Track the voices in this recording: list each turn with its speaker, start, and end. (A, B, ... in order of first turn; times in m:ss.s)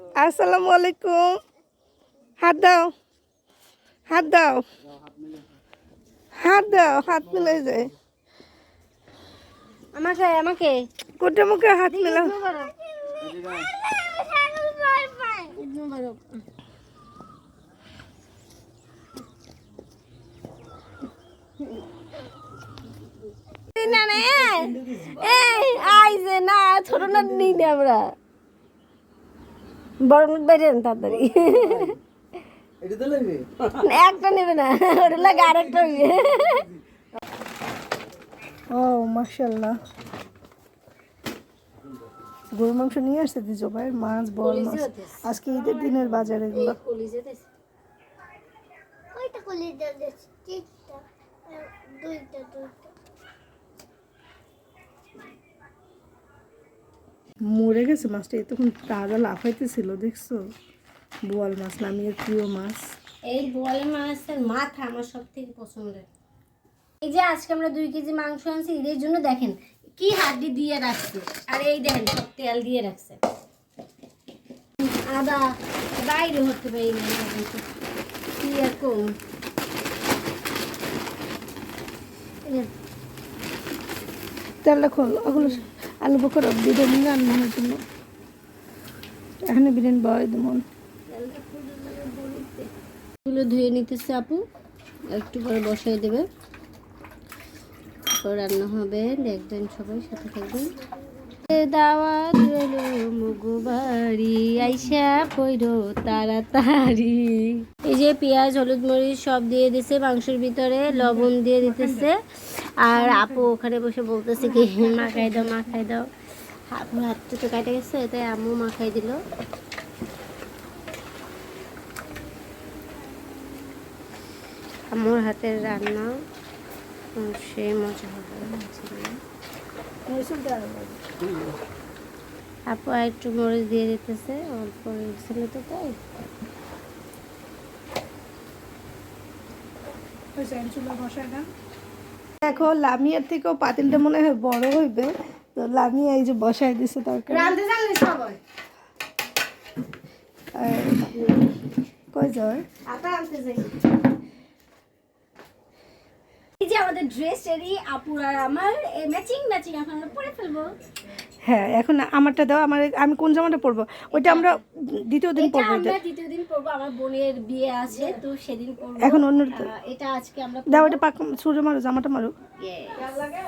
0:00.1-0:01.3 A
0:02.4-0:02.9 A
0:04.1-0:04.6 A
0:06.4-0:07.9 A
0:09.9-0:10.8 B
0:11.2-0:12.3 A
0:11.8-0:16.4 B
0:23.7-0:28.0 B
0:30.0-0:32.0 B
0:33.7-0:36.7 B
0:38.7-0:39.8 A
0:42.5-0:46.8 A
0:44.4-0:47.4 B
0:49.1-0:50.9 B
0:51.5-0:52.8 B
0:57.4-1:00.4 A
1:01.2-1:02.8 A
1:03.3-1:06.0 B
1:07.0-1:13.2 B
1:14.9-1:17.6 B
1:18.4-1:19.1 B
1:24.6-1:27.8 A
1:25.3-1:25.6 B
1:29.4-1:30.6 A
1:31.1-1:32.7 B
1:33.2-1:34.4 B
1:35.1-1:36.3 B
1:38.2-1:40.7 B
1:41.4-1:56.1 B
1:50.9-1:52.1 A
1:52.9-1:53.5 A
1:54.4-1:55.8 A
1:56.7-1:59.2 B
2:04.9-2:06.1 B
2:07.2-2:09.2 B
2:10.1-2:11.0 A
2:12.7-2:16.0 B
2:20.4-2:21.4 A
2:22.4-2:27.6 A
2:27.3-2:28.4 B
2:30.5-2:31.1 A
2:32.1-2:32.6 A
2:32.8-2:33.8 B
2:36.6-2:40.7 B
2:41.4-2:46.0 A
2:44.1-2:44.6 B
2:45.4-2:51.0 B
2:49.0-2:49.7 A
2:50.7-2:52.3 A
2:52.6-2:53.2 B